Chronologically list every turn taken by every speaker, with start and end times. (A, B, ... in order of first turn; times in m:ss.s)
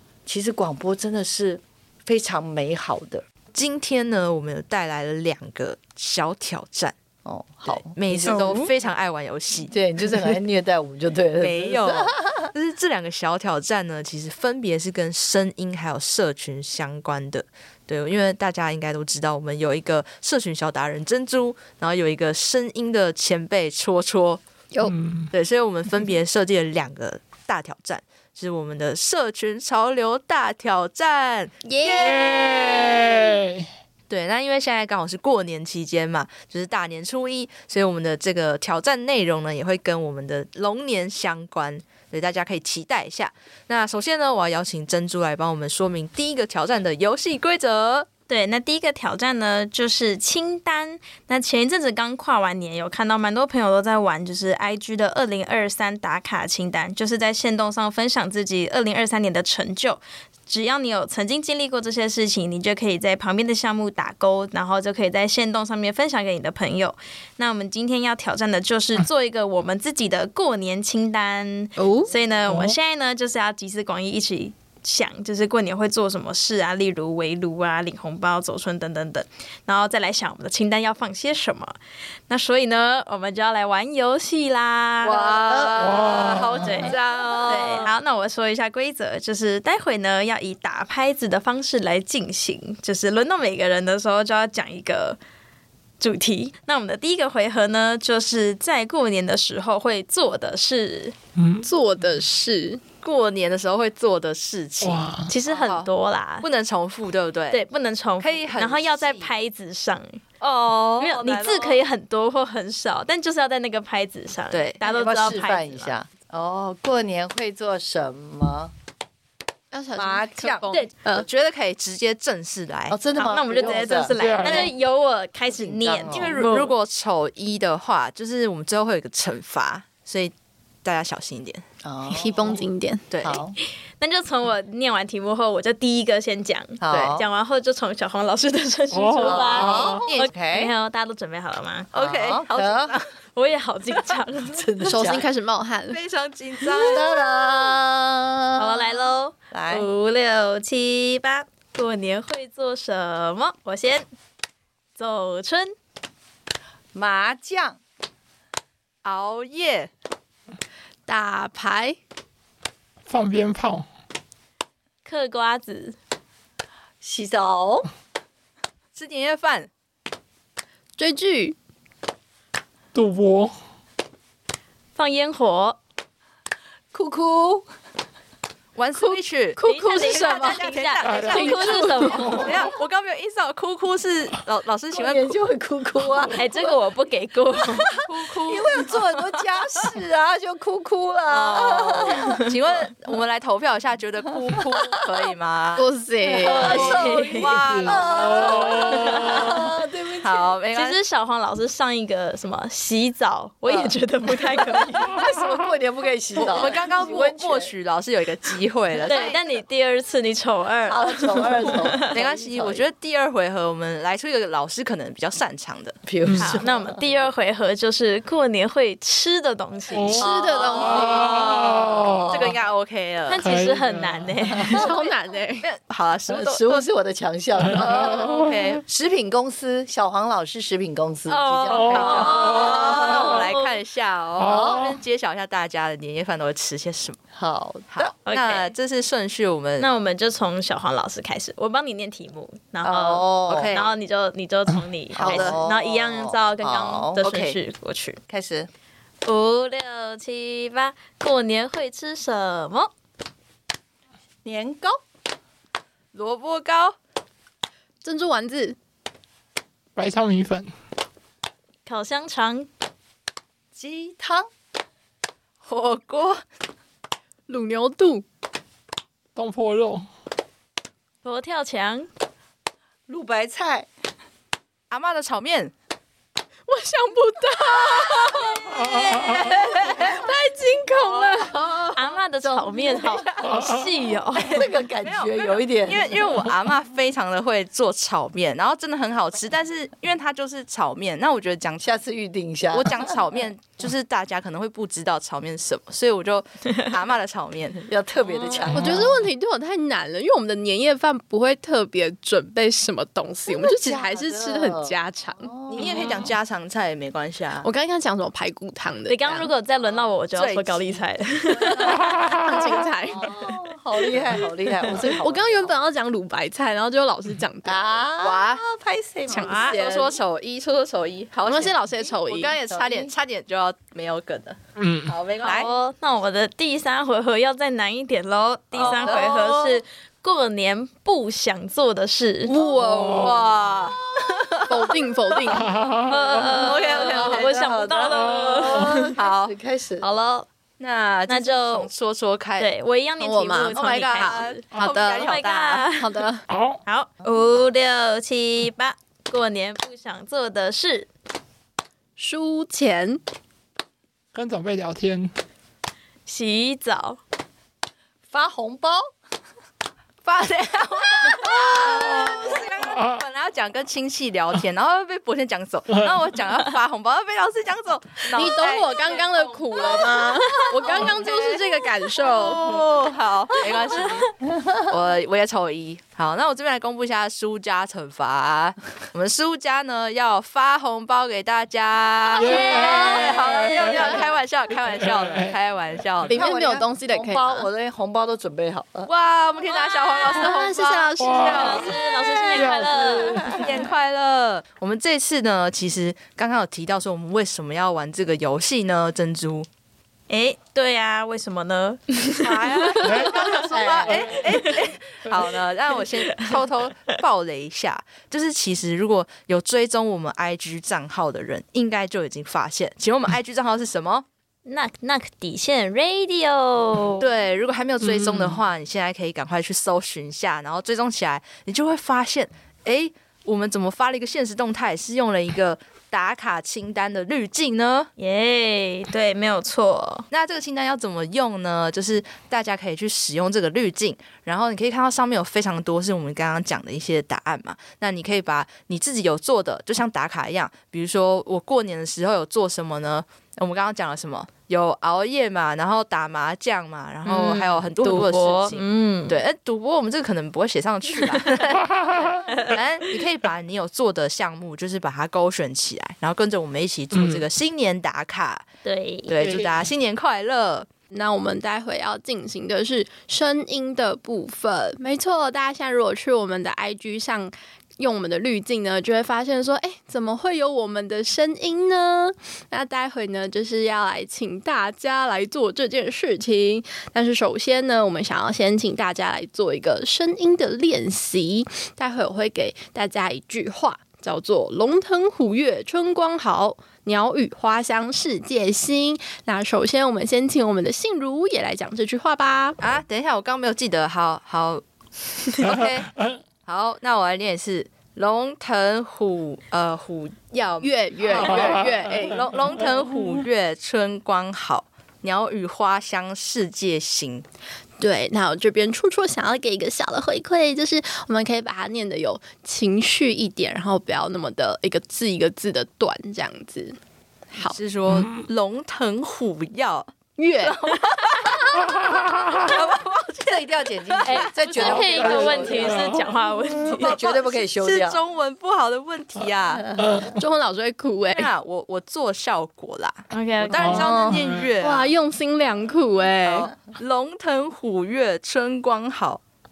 0:00.2-0:03.2 A
0:03.5-0:07.0 B
0:07.2-0:08.7 A
0:07.7-0:09.7 B
0:08.3-0:08.6 C
0:09.7-0:12.5 A
0:11.4-0:24.4 B
0:24.8-0:25.3 D
0:25.3-0:32.9 B
0:31.6-0:32.4 E
0:32.0-0:33.7 D
0:34.1-0:48.1 B
0:48.3-1:21.8 C
1:11.8-1:12.1 E
1:12.5-1:12.7 D
1:22.3-1:26.0 C
1:25.0-1:27.9 B
1:25.7-1:26.8 D
1:26.5-1:35.2 C
1:36.0-1:41.2 C
1:41.4-1:41.6 D
1:41.6-1:42.8 E
1:43.0-1:45.9 B
1:44.8-1:45.3 D
1:45.3-1:46.4 C
1:46.4-1:47.6 B
1:47.5-1:50.2 C
1:48.2-1:49.3 B
1:50.4-1:51.8 B
1:51.0-1:55.9 C
1:54.5-1:54.8 B
1:54.8-1:58.7 A
1:59.7-2:01.2 E
2:00.0-2:00.7 A
2:01.1-2:03.0 B
2:02.9-2:04.7 A
2:03.1-2:06.7 C
2:04.1-2:04.7 D
2:05.5-2:06.4 A
2:06.1-2:11.6 B
2:11.8-2:12.6 A
2:12.1-2:13.0 E
2:13.1-2:13.4 B
2:13.2-2:13.5 A
2:14.0-2:21.9 C
2:16.8-2:17.2 A
2:16.9-2:17.1 B
2:18.9-2:20.0 D
2:19.2-2:20.7 A
2:21.9-2:23.1 B
2:22.0-2:23.0 A
2:23.3-2:24.6 C
2:24.5-2:25.3 A
2:24.8-2:26.0 E
2:25.9-2:27.1 B
2:26.8-2:29.0 A
2:28.6-2:34.0 C
2:29.5-2:29.9 A
2:35.0-2:35.7 C
2:36.9-2:37.8 A
2:39.0-2:39.9 B
2:41.1-2:42.0 E
2:43.0-2:43.9 D
2:45.0-2:46.0 C
2:47.0-2:47.9 A
2:48.9-2:49.7 B
2:51.0-2:51.6 E
2:52.9-2:53.5 D
2:55.0-2:55.8 C
2:56.9-2:57.6 A
2:58.7-3:05.3 B
2:59.0-3:02.4 E
2:59.6-3:02.5 C
3:01.0-3:02.6 D
3:04.9-3:06.7 A
3:06.3-3:08.0 C
3:07.8-3:12.4 A
3:08.0-3:09.0 B
3:11.3-3:15.8 B
3:14.6-3:14.9 A
3:15.7-3:16.9 E
3:16.2-3:20.6 A
3:16.5-3:19.6 B
3:16.6-3:17.6 C
3:18.5-3:19.2 D
3:19.0-3:19.5 C
3:20.2-3:21.0 B
3:20.7-3:25.2 C
3:23.7-3:24.0 A
3:25.1-3:27.7 A
3:26.4-3:29.4 B
3:29.0-3:32.0 C
3:30.8-3:32.8 A
3:32.0-3:36.0 B
3:36.0-3:37.0 A
3:36.3-3:36.6 D
3:36.4-3:40.2 C
3:39.9-3:40.2 D
3:40.2-3:42.6 A
3:40.2-3:41.3 E
3:40.2-3:41.6 B
3:40.8-3:42.3 D
3:42.3-3:43.4 B
3:43.3-3:45.0 C
3:43.4-3:44.7 D
3:44.7-3:45.7 E
3:45.6-3:46.8 B
3:46.3-3:53.4 A
3:47.7-3:48.8 B
3:51.3-3:53.8 C
3:51.7-3:53.1 D
3:51.8-3:57.2 B
3:54.4-3:55.0 D
3:54.4-3:55.0 A
3:57.3-3:58.1 A
3:57.9-3:59.9 B
3:58.2-3:58.7 C
3:59.8-4:08.2 C
4:02.8-4:03.8 A
4:03.5-4:03.8 B
4:05.1-4:07.2 A
4:05.2-4:05.6 B
4:07.2-4:07.6 B
4:08.3-4:08.7 A
4:09.2-4:12.9 C
4:14.4-4:15.0 A
4:16.1-4:17.0 B
4:18.0-4:18.8 E
4:20.0-4:20.7 D
4:21.8-4:22.7 C
4:23.7-4:24.5 A
4:25.6-4:26.4 B
4:27.5-4:28.2 E
4:29.3-4:30.1 D
4:31.2-4:32.1 C
4:33.1-4:33.9 A
4:34.9-4:35.7 B
4:36.7-4:38.9 E
4:38.7-4:39.9 C
4:38.9-4:39.3 D
4:39.5-4:41.5 E
4:39.7-4:40.2 A
4:40.8-4:43.5 A
4:41.9-4:44.7 C
4:43.4-4:43.8 D
4:44.3-4:46.4 A
4:44.4-4:51.9 B
4:51.8-4:53.2 A
4:52.7-4:57.8 B
4:57.8-4:59.1 A
4:58.3-4:58.8 B
4:58.7-4:59.1 D
4:58.7-5:06.0 E
5:03.5-5:06.3 A
5:05.7-5:07.7 B
5:07.6-5:09.5 E
5:09.1-5:12.1 C
5:10.3-5:11.0 B
5:11.6-5:12.0 A
5:12.4-5:13.3 E
5:13.1-5:15.7 A
5:15.1-5:18.0 E
5:17.6-5:20.2 A
5:18.2-5:18.6 B
5:19.3-5:20.1 C
5:19.3-5:25.7 B
5:21.4-5:22.5 E
5:22.6-5:23.1 A
5:24.8-5:25.1 D
5:25.4-5:25.7 A
5:25.4-5:32.5 C
5:28.7-5:29.8 B
5:28.8-5:29.4 A
5:32.5-5:33.3 E
5:32.5-5:34.9 B
5:32.6-5:33.3 D
5:33.0-5:33.3 A
5:34.7-5:35.7 E
5:35.6-5:36.4 D
5:36.1-5:39.1 C
5:36.4-5:37.5 B
5:36.4-5:40.0 A
5:38.8-5:39.6 B
5:40.0-5:40.5 C
5:40.8-5:42.7 B
5:41.3-5:41.9 C
5:42.6-5:46.0 C
5:43.2-5:45.3 E
5:43.8-5:45.9 B
5:46.0-5:46.4 E
5:46.5-5:46.8 D
5:46.8-5:51.1 C
5:52.2-5:53.2 E
5:54.3-5:55.3 D
5:56.2-5:57.2 C
5:58.3-5:59.1 A
6:00.2-6:10.2 B
6:01.2-6:02.6 A
6:02.8-6:03.2 D
6:08.3-6:12.7 E
6:09.8-6:10.6 C
6:10.8-6:11.6 B
6:12.2-6:26.4 B
6:13.9-6:14.2 C
6:22.3-6:24.2 D
6:22.4-6:24.0 C
6:22.7-6:24.0 A
6:25.0-6:25.5 D
6:26.3-6:29.1 A
6:26.3-6:27.6 E
6:29.0-6:32.0 B
6:29.7-6:30.5 C
6:30.3-6:31.9 E
6:31.2-6:31.9 D
6:31.3-6:33.6 C
6:32.5-6:33.6 D
6:33.4-6:39.7 B
6:40.3-6:44.8 C
6:42.4-6:54.2 B
6:43.0-6:43.4 D
6:43.2-6:44.4 A
6:46.0-6:46.6 C
6:54.6-6:57.3 C
6:57.2-7:08.1 B
6:58.0-6:58.6 D
7:08.2-7:10.2 C
7:10.3-7:38.6 B
7:27.2-7:29.4 C
7:31.9-7:32.4 D
7:37.1-7:37.4 D
7:38.8-7:39.3 C
7:39.3-7:40.9 B
7:39.4-7:39.8 D
7:41.1-8:12.8 E
8:12.8-8:14.8 B
8:15.4-8:16.1 B
8:15.6-8:16.4 D
8:16.6-8:27.4 B
8:20.8-8:22.4 E
8:21.5-8:21.8 D
8:28.0-8:37.0 E
8:37.5-8:37.8 E
8:37.6-8:45.4 B
8:38.1-8:38.4 D
8:40.4-8:40.8 E
8:42.0-8:42.6 D
8:43.4-8:46.1 A
8:44.2-8:47.1 C
8:45.0-8:46.2 D
8:46.9-8:48.2 A
8:47.0-8:50.0 B
8:50.0-8:50.3 D
8:50.3-8:51.5 E
8:51.3-8:55.1 B
8:53.3-8:54.2 C
8:53.7-8:54.7 D
8:53.9-8:54.4 A
8:54.8-8:56.7 E
8:56.4-8:59.4 B